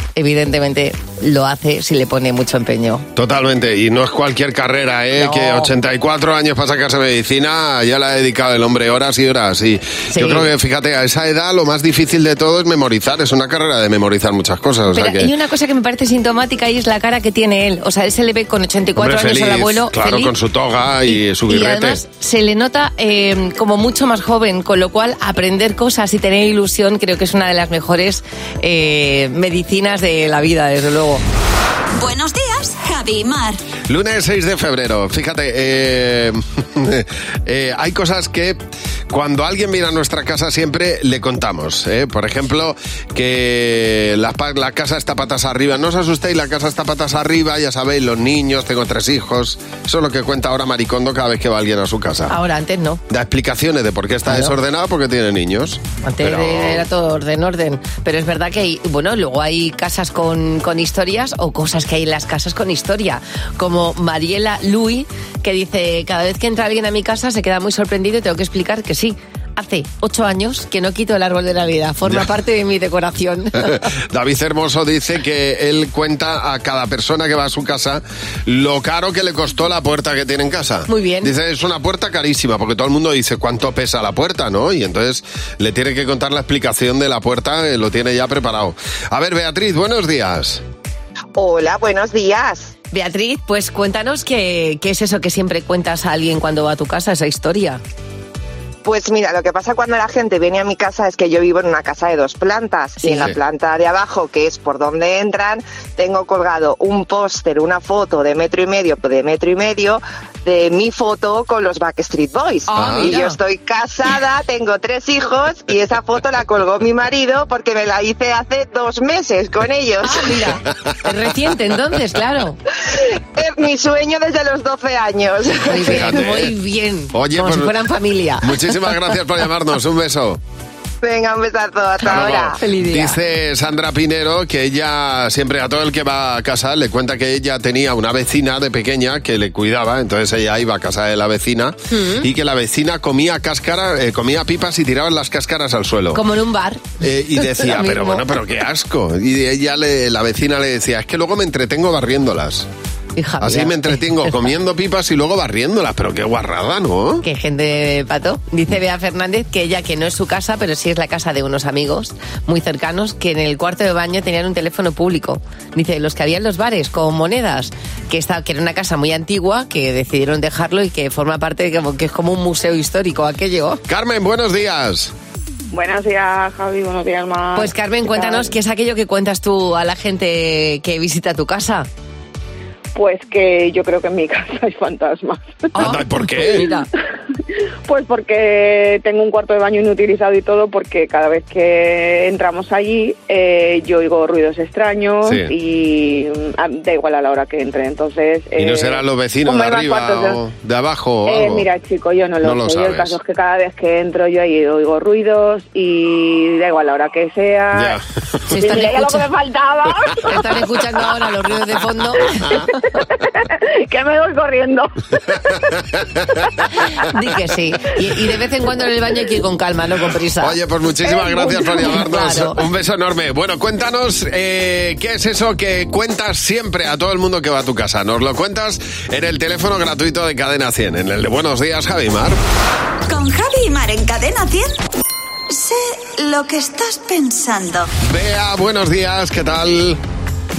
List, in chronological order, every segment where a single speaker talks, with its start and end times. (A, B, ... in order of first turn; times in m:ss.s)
0:00.2-0:03.1 A
0:03.2-0:15.3 B
0:05.2-0:05.7 A
0:10.1-0:10.5 A
0:14.9-0:20.3 A
0:19.0-0:22.0 B
0:21.1-0:31.2 A
0:32.0-0:33.6 C
0:33.9-0:38.6 B
0:39.1-0:52.3 B
0:52.3-0:53.0 A
0:53.1-0:56.8 B
0:54.3-0:54.5 A
0:56.0-1:13.8 A
1:13.7-1:30.6 B
1:20.9-1:21.3 A
1:31.4-1:32.7 D
1:32.9-1:37.8 A
1:38.8-2:00.3 D
1:43.0-1:43.4 A
1:52.7-1:53.4 A
1:52.7-1:53.2 B
2:00.0-2:02.6 A
2:03.4-2:05.9 D
2:05.5-2:08.6 A
2:05.7-2:06.5 B
2:07.1-2:07.7 B
2:08.4-2:10.4 B
2:11.0-2:12.6 D
2:12.0-2:26.2 B
2:12.1-2:13.2 A
2:21.9-2:22.3 A
2:26.1-2:28.2 A
2:27.0-2:32.7 B
2:33.2-2:34.3 A
2:33.4-2:37.2 B
2:37.2-2:53.8 A
2:53.9-2:55.1 B
2:55.7-2:58.5 E
2:57.6-3:01.9 A
3:02.9-3:05.9 E
3:05.8-3:06.9 A
3:05.8-3:06.7 B
3:07.9-3:20.4 E
3:15.2-3:15.5 B
3:18.6-3:21.7 B
3:21.3-3:28.0 E
3:22.4-3:23.2 B
3:27.7-3:28.0 B
3:28.5-3:29.3 A
3:28.6-3:30.5 E
3:30.3-3:32.7 A
3:32.4-3:34.9 E
3:36.8-3:40.6 A
3:40.4-3:52.4 B
3:41.1-3:42.6 A
3:53.1-3:54.8 C
3:55.5-3:57.9 C
3:58.0-4:00.0 B